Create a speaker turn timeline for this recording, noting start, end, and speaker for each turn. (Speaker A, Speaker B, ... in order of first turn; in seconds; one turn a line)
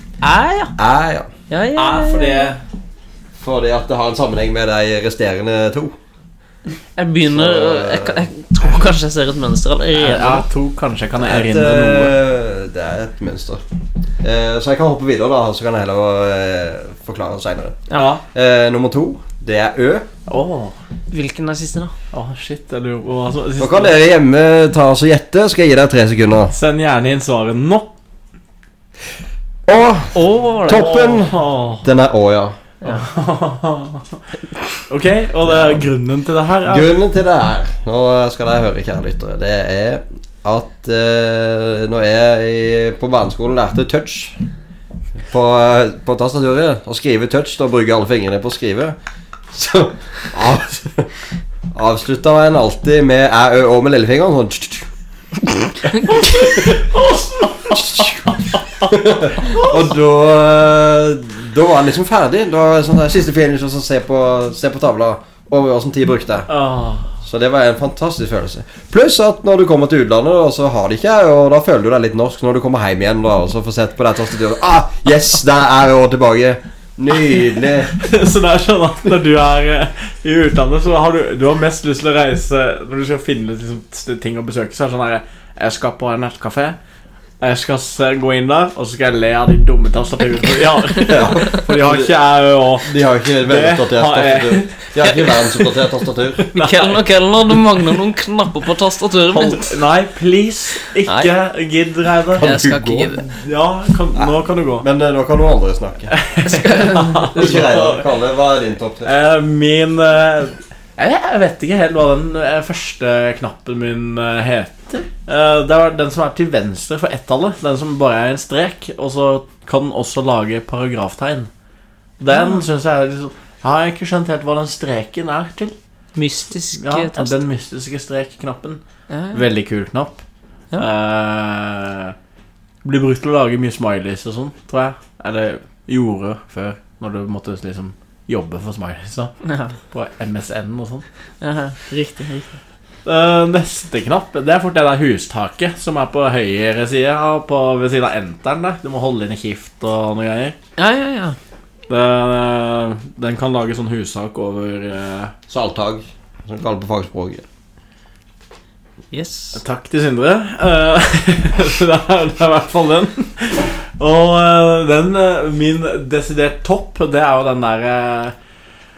Speaker A: 0.2-0.7
Speaker B: 0.8-1.3
Speaker A: 1.5-2.5
Speaker C: 1.8-2.6
Speaker B: 3.4-6.0
Speaker A: 7.0-10.4
Speaker B: 7.3-8.3
Speaker C: 9.9-12.1
Speaker B: 11.2-13.6
Speaker B: 14.2-20.1
Speaker C: 17.9-18.2
Speaker C: 20.3-20.8
Speaker A: 21.1-21.9
Speaker C: 22.1-23.9
Speaker B: 23.6-26.5
Speaker C: 26.5-27.9
Speaker B: 29.7-32.5
Speaker A: 30.1-31.1
Speaker C: 30.7-31.9
Speaker C: 32.8-34.2
Speaker C: 34.9-36.9
Speaker B: 36.7-44.4
Speaker B: 45.2-49.0
Speaker B: 49.5-51.1
Speaker B: 51.7-54.9
Speaker A: 56.0-56.3
Speaker C: 56.0-58.5
Speaker B: 57.7-66.5
Speaker C: 59.4-59.8
Speaker C: 66.5-67.1
Speaker B: 67.2-77.9
Speaker C: 77.9-86.8
Speaker C: 87.4-92.9
Speaker B: 91.0-92.1
Speaker B: 92.8-96.5
Speaker C: 93.5-94.9
Speaker C: 96.4-97.0
Speaker A: 96.5-99.8
Speaker C: 99.3-102.5
Speaker B: 102.4-103.2
Speaker A: 102.4-103.2
Speaker C: 103.1-104.8
Speaker B: 104.2-106.1
Speaker C: 106.1-108.0
Speaker A: 106.4-107.6
Speaker B: 107.3-109.1
Speaker C: 109.0-121.5
Speaker C: 122.2-125.7
Speaker A: 126.1-127.4
Speaker C: 126.8-128.8
Speaker A: 129.1-129.4
Speaker C: 129.3-130.2
Speaker C: 130.8-132.1
Speaker C: 132.8-139.3
Speaker A: 139.4-139.7
Speaker C: 139.9-141.0
Speaker A: 141.4-142.5
Speaker C: 143.1-150.6
Speaker A: 150.8-151.4
Speaker C: 151.9-155.3
Speaker B: 155.5-157.4
Speaker A: 159.1-159.6
Speaker C: 159.5-168.3